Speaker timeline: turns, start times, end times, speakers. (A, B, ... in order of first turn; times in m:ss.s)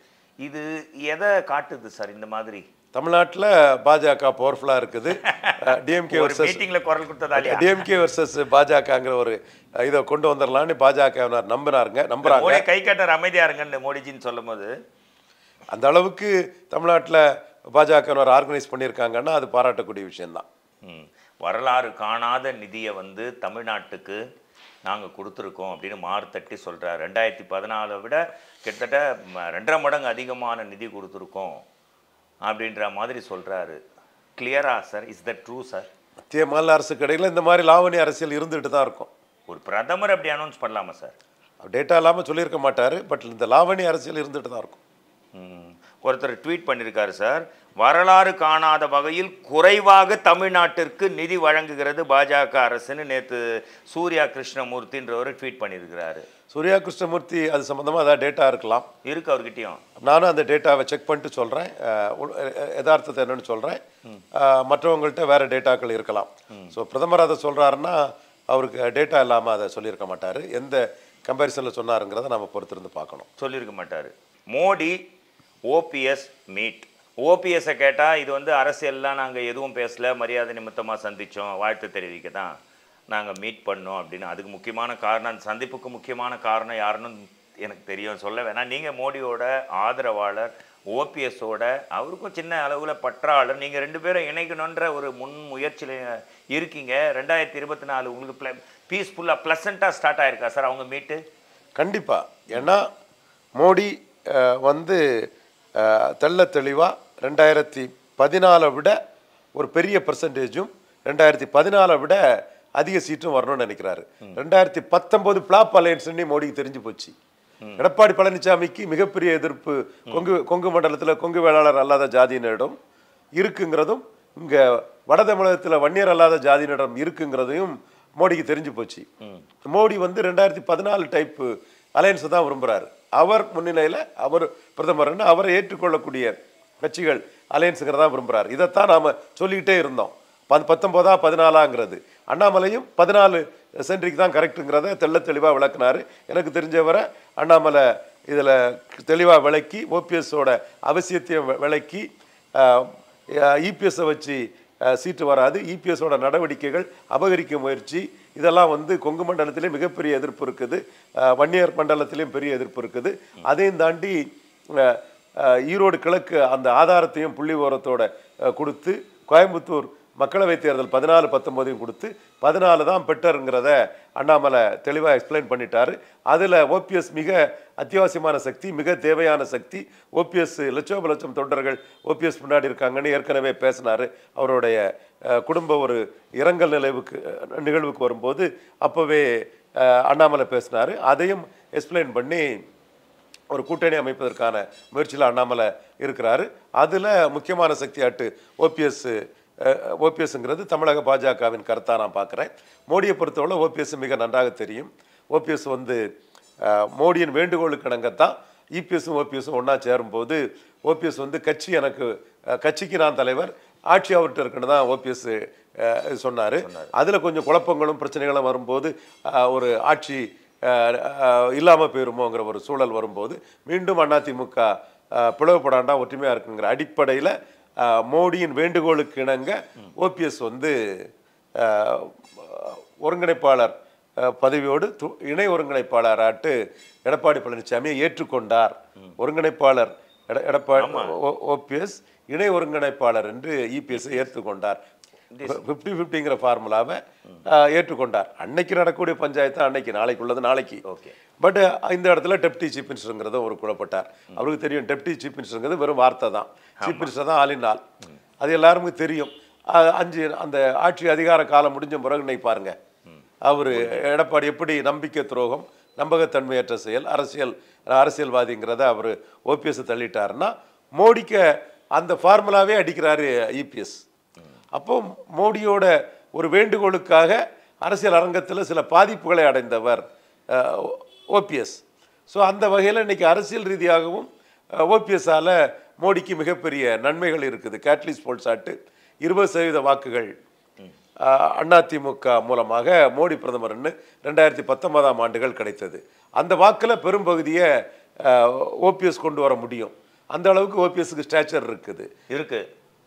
0:00.4-0:02.6 A
0:02.9-0:06.6 B
0:05.2-0:07.8 A
0:07.4-0:12.6 B
0:12.2-0:14.7 A
0:15.7-0:20.4 B
0:20.8-0:24.2 A
0:24.8-0:31.6 A
0:32.4-0:33.8 A
0:34.4-0:35.9 A
0:36.3-0:39.1 B
0:39.5-0:41.2 A
0:41.6-0:44.8 B
0:45.4-0:56.3 A
0:56.5-0:58.8 B
0:59.0-0:59.8 A
1:00.0-1:03.8 B
1:04.4-1:13.3 B
1:13.4-1:15.0 A
1:15.7-1:22.5 A
1:23.1-1:41.2 A
1:41.8-1:42.8 B
1:43.6-1:45.0 B
1:45.8-1:49.0 B
1:49.6-1:52.2 B
1:52.8-1:57.1 B
1:57.8-2:02.8 B
2:03.4-2:09.0 B
2:09.7-2:32.1 B
2:32.6-2:44.2 B
2:44.7-3:12.6 B
3:13.5-3:26.0 B
3:26.6-3:32.1 B
3:32.6-3:50.7 B
3:36.6-3:36.9 A
3:51.6-4:04.8 B
4:00.8-4:01.2 A
4:03.9-4:04.3 A
4:05.3-4:05.6 A
4:05.4-4:10.8 B
4:10.9-4:11.2 A
4:11.4-4:17.8 B
4:16.8-4:17.1 A
4:18.4-4:22.8 B
4:23.1-4:24.0 A
4:23.5-4:34.0 B
4:34.7-4:50.3 B
4:51.2-4:57.7 B
4:58.2-5:02.1 B
5:02.3-5:02.6 A